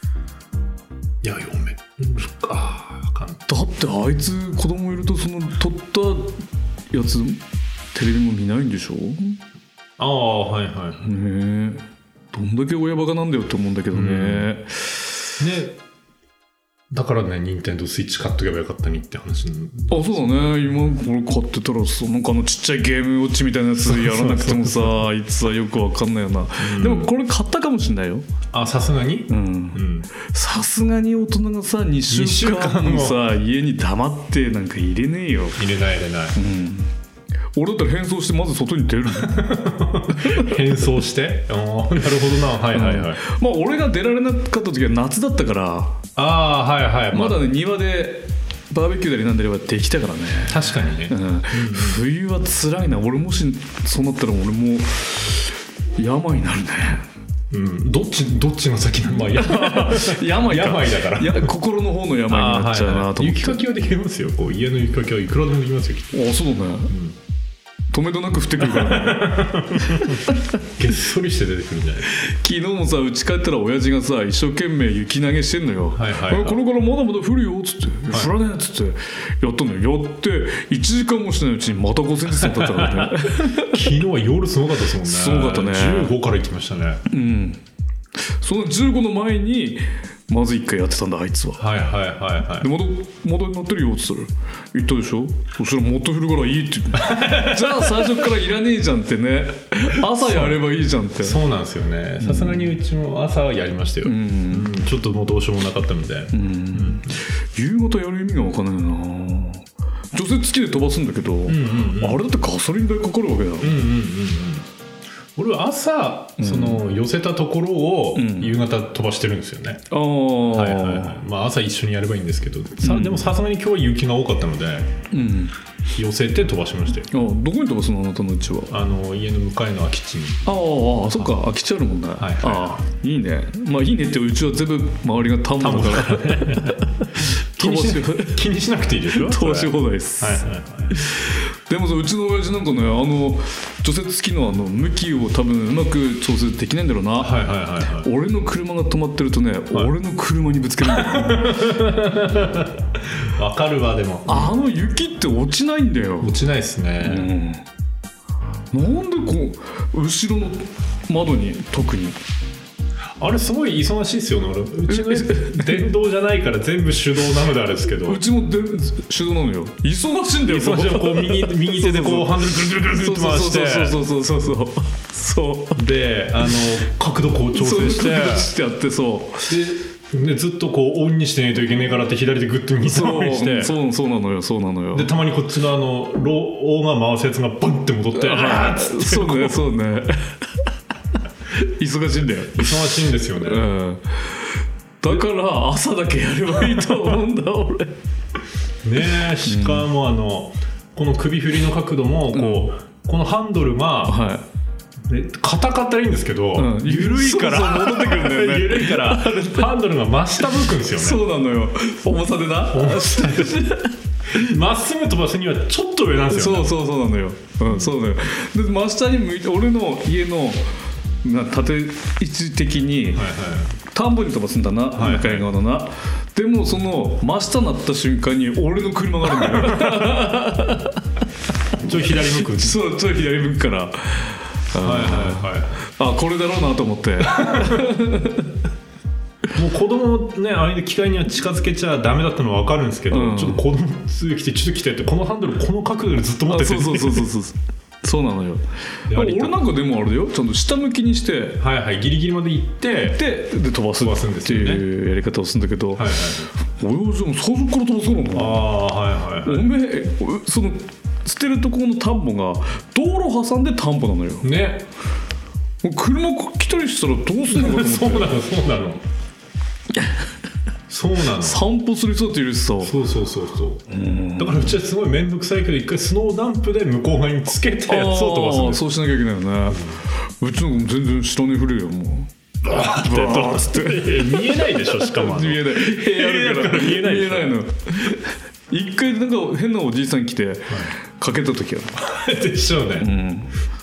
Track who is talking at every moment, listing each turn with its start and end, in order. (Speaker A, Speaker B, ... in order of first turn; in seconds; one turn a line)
Speaker A: 1.2-3.4
Speaker B: 3.5-7.4
Speaker B: 7.9-9.4
Speaker A: 10.0-11.1
Speaker B: 11.0-15.1
Speaker A: 13.9-14.5
Speaker A: 15.4-15.8
Speaker A: 16.9-20.8
Speaker B: 19.9-28.2
Speaker A: 23.8-25.0
Speaker A: 26.6-27.1
Speaker A: 28.5-30.1
Speaker B: 29.3-35.6
Speaker A: 32.1-33.2
Speaker A: 35.6-36.4
Speaker B: 36.3-36.9
Speaker B: 37.5-39.5
Speaker A: 39.2-43.2
Speaker B: 40.2-40.5
Speaker B: 42.7-46.0
Speaker A: 46.1-47.5
Speaker B: 47.1-57.0
Speaker A: 50.5-52.0
Speaker A: 57.5-61.5
Speaker B: 59.3-63.6
Speaker A: 62.3-66.2
Speaker B: 66.1-66.9
Speaker A: 66.9-67.2
Speaker B: 67.9-70.5
Speaker A: 68.6-72.1
Speaker B: 72.1-83.9
Speaker A: 75.9-76.6
Speaker A: 82.3-87.0
Speaker B: 85.0-86.2
Speaker B: 87.1-87.6
Speaker B: 88.2-91.7
Speaker A: 91.6-92.7
Speaker B: 92.6-101.4
Speaker A: 96.9-98.3
Speaker A: 100.1-100.6
Speaker A: 101.2-107.2
Speaker B: 102.2-102.7
Speaker B: 104.0-104.7
Speaker B: 106.3-113.8
Speaker A: 111.5-112.2
Speaker A: 113.6-114.7
Speaker A: 115.3-119.8
Speaker B: 116.4-116.8
Speaker B: 118.1-118.5
Speaker B: 119.9-121.2
Speaker A: 120.5-125.0
Speaker B: 122.8-123.3
Speaker B: 125.1-125.5
Speaker A: 125.9-127.1
Speaker B: 127.1-128.8
Speaker A: 128.7-130.5
Speaker B: 130.4-138.4
Speaker A: 131.1-131.4
Speaker A: 132.2-132.8
Speaker A: 135.6-141.0
Speaker B: 139.1-151.7
Speaker A: 147.2-148.1
Speaker A: 150.8-154.6
Speaker B: 154.3-156.3
Speaker A: 156.2-157.3
Speaker B: 157.0-157.6
Speaker B: 158.7-162.2
Speaker A: 163.2-168.2
Speaker B: 164.9-165.8
Speaker B: 168.0-175.8
Speaker A: 170.4-174.0
Speaker A: 175.8-178.5
Speaker B: 177.5-179.6
Speaker A: 179.5-183.7
Speaker B: 182.8-185.1
Speaker A: 184.9-189.7
Speaker B: 188.1-190.6
Speaker B: 191.5-198.0
Speaker A: 192.6-193.7
Speaker A: 196.6-196.9
Speaker A: 198.8-204.2
Speaker B: 199.4-199.9
Speaker B: 202.3-202.7
Speaker B: 204.1-204.4
Speaker A: 205.1-211.2
Speaker B: 206.6-209.8
Speaker B: 210.5-214.5
Speaker A: 212.7-213.7
Speaker A: 214.3-216.8
Speaker B: 216.3-223.3
Speaker A: 217.6-218.0
Speaker A: 223.1-223.8
Speaker B: 223.9-231.0
Speaker A: 224.9-225.5
Speaker A: 229.4-230.2
Speaker A: 231.8-232.8
Speaker B: 232.4-238.5
Speaker A: 234.7-235.8
Speaker A: 237.2-237.8
Speaker A: 239.5-247.3
Speaker B: 243.1-243.6
Speaker B: 246.5-251.6
Speaker A: 249.1-249.6
Speaker A: 251.6-253.2
Speaker B: 253.1-258.7
Speaker A: 254.0-254.8
Speaker A: 255.9-256.5
Speaker A: 258.3-259.7
Speaker B: 259.4-264.5
Speaker A: 264.4-264.8
Speaker B: 265.8-268.4
Speaker A: 267.5-269.0
Speaker B: 269.9-270.2
Speaker A: 270.9-271.7
Speaker B: 271.4-273.0
Speaker A: 272.8-273.9
Speaker B: 273.9-274.7
Speaker A: 274.4-278.8
Speaker B: 277.9-282.3
Speaker A: 279.7-280.0
Speaker A: 282.6-287.6
Speaker B: 282.8-292.0
Speaker A: 290.7-290.9
Speaker A: 292.0-293.1
Speaker B: 293.0-293.5